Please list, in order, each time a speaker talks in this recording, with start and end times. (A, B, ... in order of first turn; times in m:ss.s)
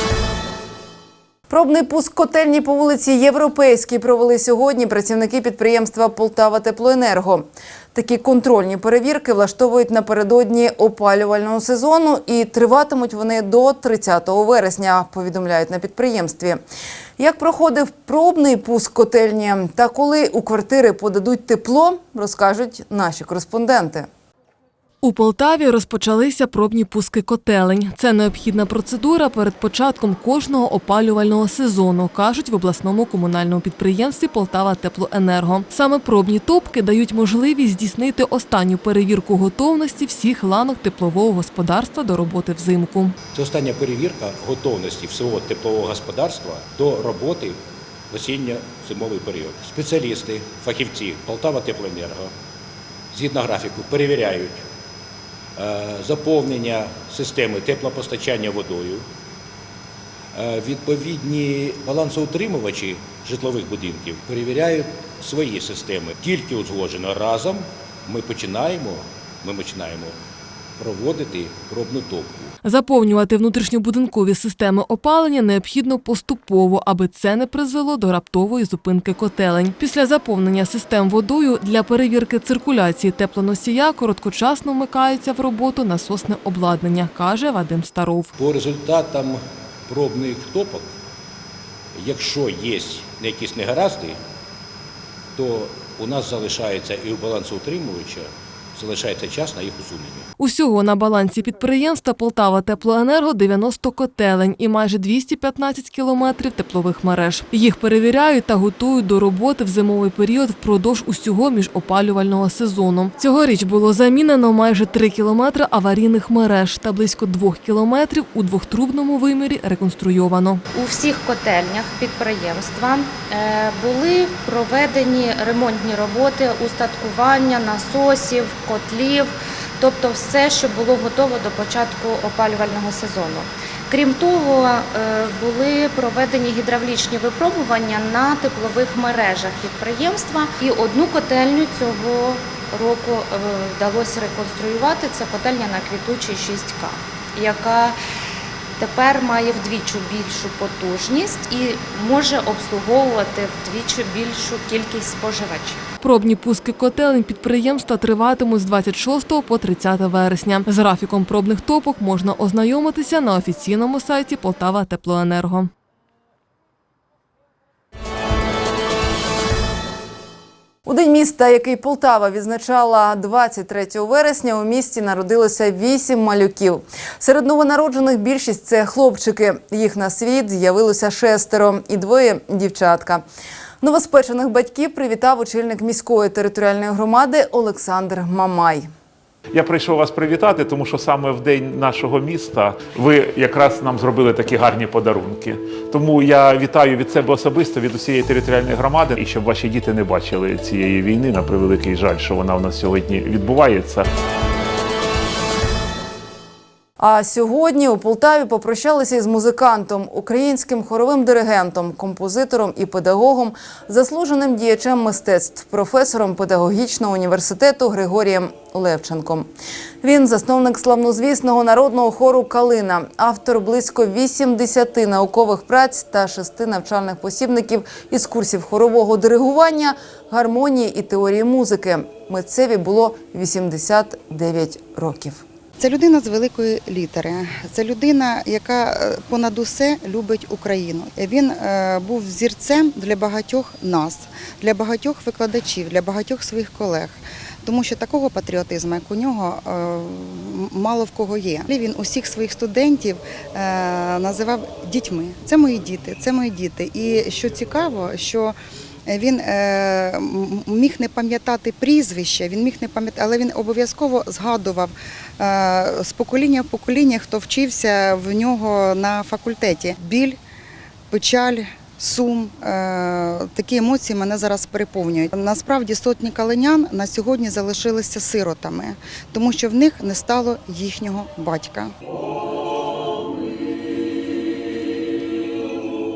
0:01.5-0:16.6 A
0:17.2-0:24.1 A
0:25.0-0:43.1 B
0:43.3-0:47.6 C
0:48.1-0:52.3 C
0:53.1-0:54.6 C
0:55.6-0:59.0 C
1:00.3-1:10.2 C
1:10.8-1:12.5 C
1:12.6-1:28.3 B
1:28.4-1:30.9 C
1:32.0-1:34.2 C
1:35.4-1:40.3 C
1:40.4-2:00.6 B
2:00.7-2:28.0 D
2:28.8-2:35.8 D
2:36.0-2:45.7 B
2:50.8-3:03.2 A
3:03.8-3:08.9 A
3:09.5-3:24.0 E
3:27.0-3:39.5 A
3:40.0-3:55.4 A
3:55.8-4:30.4 F
4:31.1-4:41.9 F